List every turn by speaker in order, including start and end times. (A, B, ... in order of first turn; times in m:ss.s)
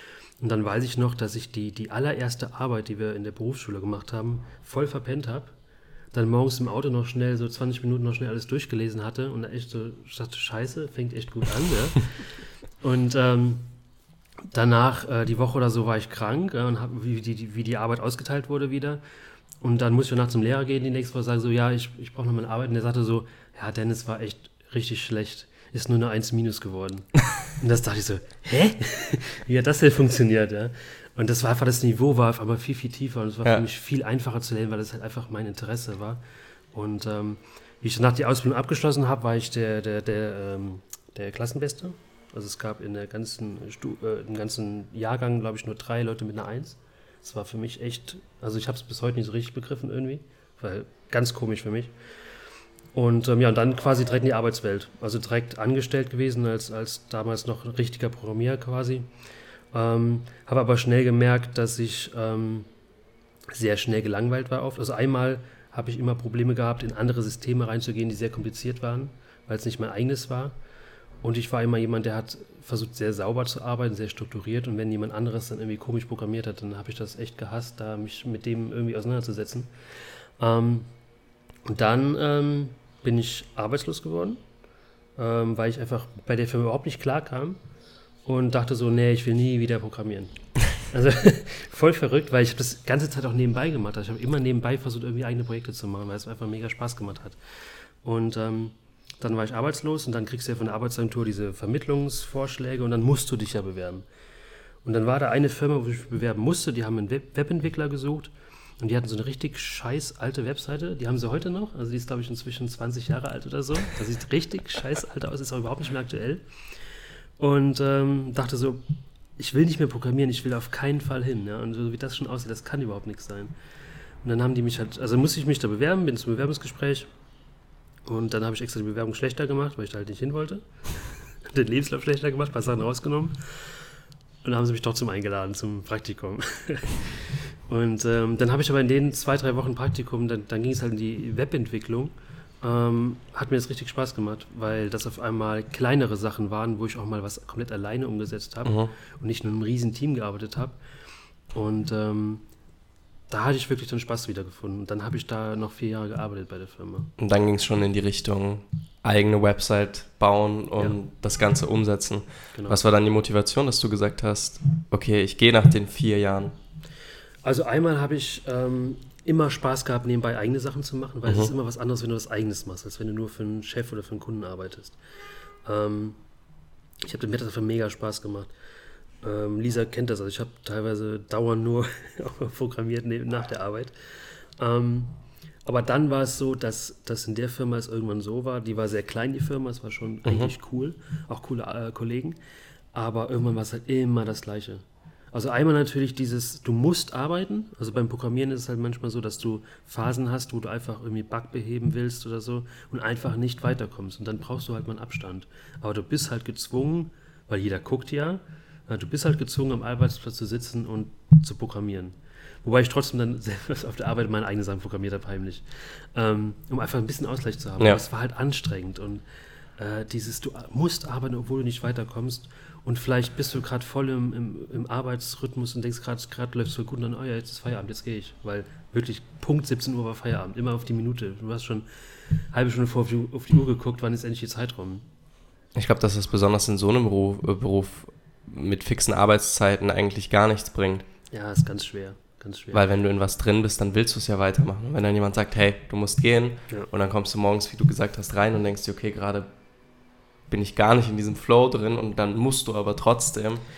0:00.4-0:05.5 A
0:06.1-0:13.7 A
0:14.5-0:19.0 A
0:19.6-0:36.2 A
0:36.7-0:51.9 A
0:52.9-0:59.1 A
0:59.7-1:02.7 A
1:03.5-1:10.6 A
1:11.2-1:19.7 A
1:20.4-1:20.9 A
1:21.7-1:24.4 A
1:25.2-1:27.6 A
1:28.2-1:37.4 A
1:38.0-1:44.1 A
1:44.8-1:56.5 A
1:57.4-1:58.8 A
1:59.4-2:03.6 A
2:04.2-2:07.1 A
2:08.1-2:10.7 A
2:11.4-2:13.8 A
2:14.4-2:30.8 A
2:28.6-2:28.9 B
2:31.5-2:32.4 A
2:33.3-2:37.1 A
2:37.2-2:46.6 B
2:42.5-2:42.8 A
2:47.4-2:55.0 A
2:55.6-2:56.2 A
2:57.0-2:58.5 A
2:59.2-3:03.9 A
3:04.6-3:12.4 A
3:10.2-3:10.5 B
3:12.9-3:39.2 A
3:39.8-3:51.9 A
3:52.4-3:55.1 A
3:55.8-4:01.0 B
4:01.3-4:02.8 A
4:02.7-4:09.5 B
4:10.5-4:13.6 B